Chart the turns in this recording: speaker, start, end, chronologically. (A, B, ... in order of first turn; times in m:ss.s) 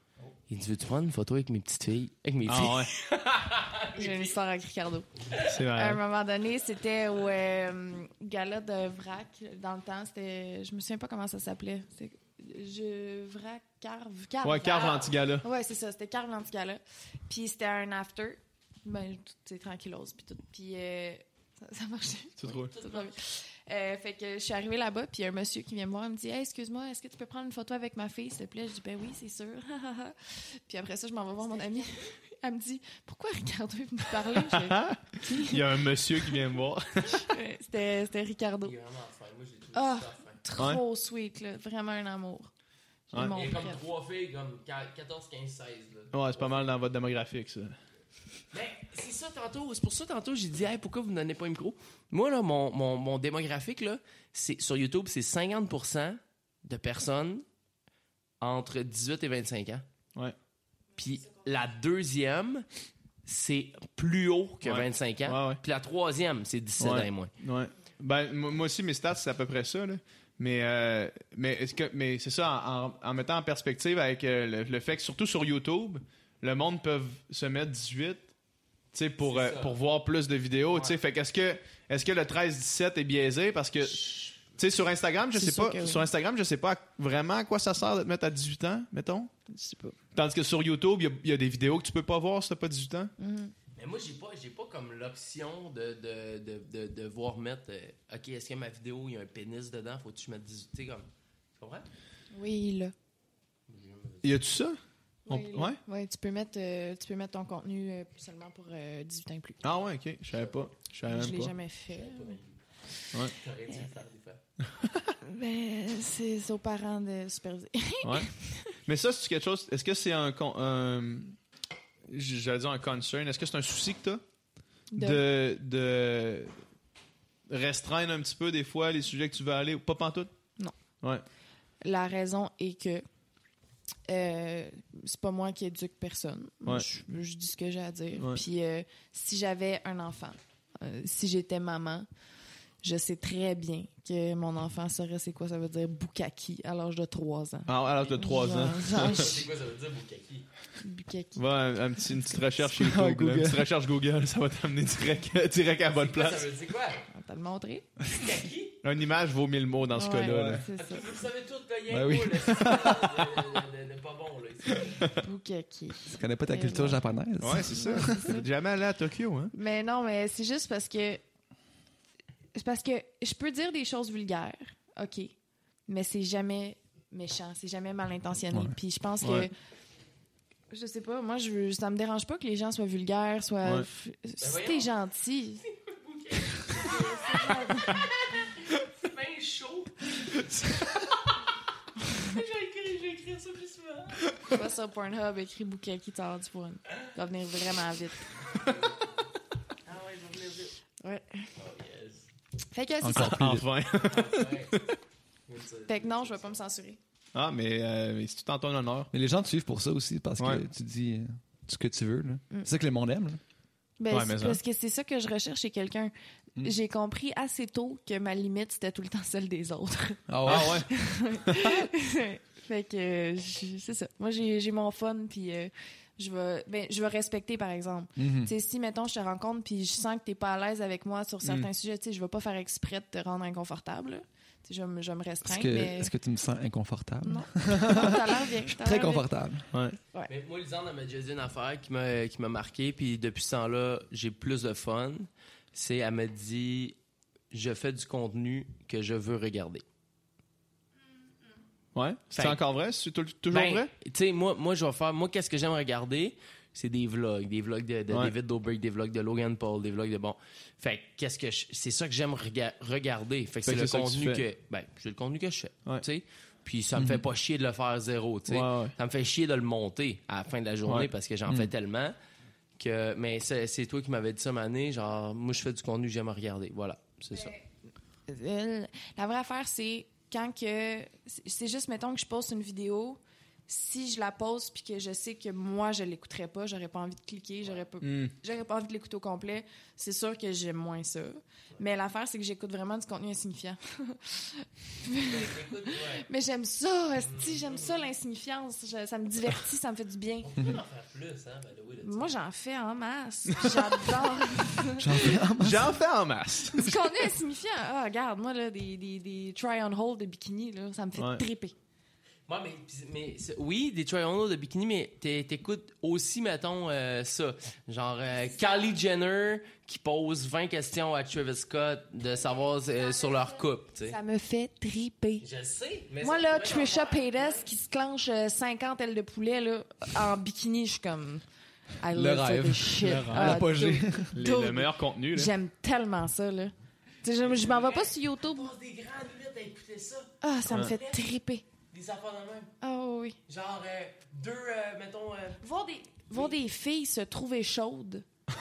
0:00.5-0:04.3 A
0:02.4-0:02.9 B
0:03.9-0:05.1 C
0:05.4-0:06.0 B
0:05.7-0:35.7 C
0:14.4-0:15.4 B
0:14.7-0:15.1 A
0:22.4-0:22.7 B
0:22.5-0:23.1 A
0:31.8-0:32.0 A
0:34.4-0:37.3 B
0:37.1-0:38.7 C
0:38.6-0:40.4 A
0:39.7-0:42.5 C
0:43.1-0:43.8 C
0:43.1-0:43.4 B
0:43.2-0:46.6 A
0:46.1-0:47.8 B
0:48.5-0:57.4 A
0:58.4-0:59.8 A
1:01.0-1:02.6 A
1:03.2-1:07.3 A
1:04.6-1:05.6 B
1:06.8-1:18.3 B
1:18.9-1:29.3 B
1:19.2-1:19.8 A
1:20.7-1:21.0 A
1:23.8-1:24.4 A
1:25.3-1:26.1 C
1:29.5-1:30.0 C
1:30.1-1:33.1 B
1:33.2-1:33.5 C
1:33.8-1:41.8 A
1:42.3-1:42.9 C
1:43.7-1:44.4 A
1:44.2-1:45.8 B
1:45.3-1:49.6 C
1:49.6-1:51.5 B
1:51.0-1:52.4 C
1:51.9-1:52.6 A
1:53.2-1:54.4 A
1:54.8-1:55.1 B
1:55.2-1:58.7 C
1:58.0-1:58.3 B
1:58.8-2:01.4 B
2:02.1-2:04.2 B
2:04.9-2:05.2 C
2:05.0-2:06.5 B
2:07.5-2:10.3 B
2:11.8-2:13.0 C
2:14.1-2:22.1 C
2:22.8-2:29.4 C
2:27.7-2:29.3 B
2:28.9-2:30.5 A
2:30.8-2:31.4 C
2:31.4-2:36.5 B
2:32.6-2:33.6 D
2:35.9-2:37.0 A
2:37.1-2:37.9 C
2:38.1-2:38.8 A
2:38.8-2:40.6 B
2:39.9-2:41.1 C
2:40.2-2:40.6 D
2:40.7-2:45.2 A
2:41.9-2:43.0 D
2:45.2-2:47.0 C
2:46.0-2:48.3 D
2:47.4-2:49.5 B
2:47.7-2:48.4 C
2:49.5-2:51.2 C
2:52.5-2:55.3 C
2:55.9-2:59.5 C
2:59.2-2:59.5 B
3:00.7-3:05.6 C
3:04.4-3:04.9 A
3:05.6-3:10.5 A
3:06.7-3:08.0 C
3:12.1-3:14.3 A
3:14.5-3:18.3 C
3:18.6-3:19.1 A
3:19.8-3:20.7 A
3:21.0-3:21.5 C
3:21.6-3:22.2 A
3:22.7-3:23.4 C
3:23.0-3:23.6 D
3:23.1-3:24.9 B
3:24.0-3:24.7 A
3:25.5-3:26.6 A
3:25.9-3:27.0 C
3:27.3-3:29.1 B
3:29.1-3:33.4 D
3:34.0-3:56.1 C
3:34.1-3:34.6 B
3:40.3-3:40.8 D
3:40.4-3:40.9 B
3:41.4-3:41.7 B
3:48.2-3:48.5 D
3:51.4-3:51.7 B
3:55.4-3:59.7 D
3:57.2-3:59.3 C
3:59.7-4:00.0 B
4:00.3-4:07.0 A
4:07.5-4:09.8 A
4:11.9-4:13.9 B
4:12.3-4:12.6 A
4:13.5-4:32.2 A
4:23.6-4:24.4 B
4:27.0-4:27.2 D
4:28.5-4:28.9 B
4:31.5-4:31.7 D
4:32.8-4:37.5 A
4:37.3-4:37.6 C
4:38.3-5:00.5 C
4:48.0-4:48.3 B
4:55.2-4:56.3 A
4:57.2-4:58.0 A
5:00.4-5:02.3 A
5:02.0-5:05.4 C
5:05.0-5:06.0 D
5:05.6-5:07.0 B
5:06.7-5:11.7 C
5:11.2-5:11.4 B
5:12.5-5:24.2 A
5:23.1-5:25.5 C
5:25.4-5:27.6 A
5:26.2-5:31.4 C
5:32.0-5:38.7 C
5:32.1-5:34.3 D
5:33.0-5:33.7 B
5:34.3-5:35.5 B
5:37.4-5:41.2 A
5:40.4-5:41.6 C
5:41.9-5:42.7 A
5:42.8-5:43.4 C
5:43.4-5:45.6 A
5:45.6-5:48.2 C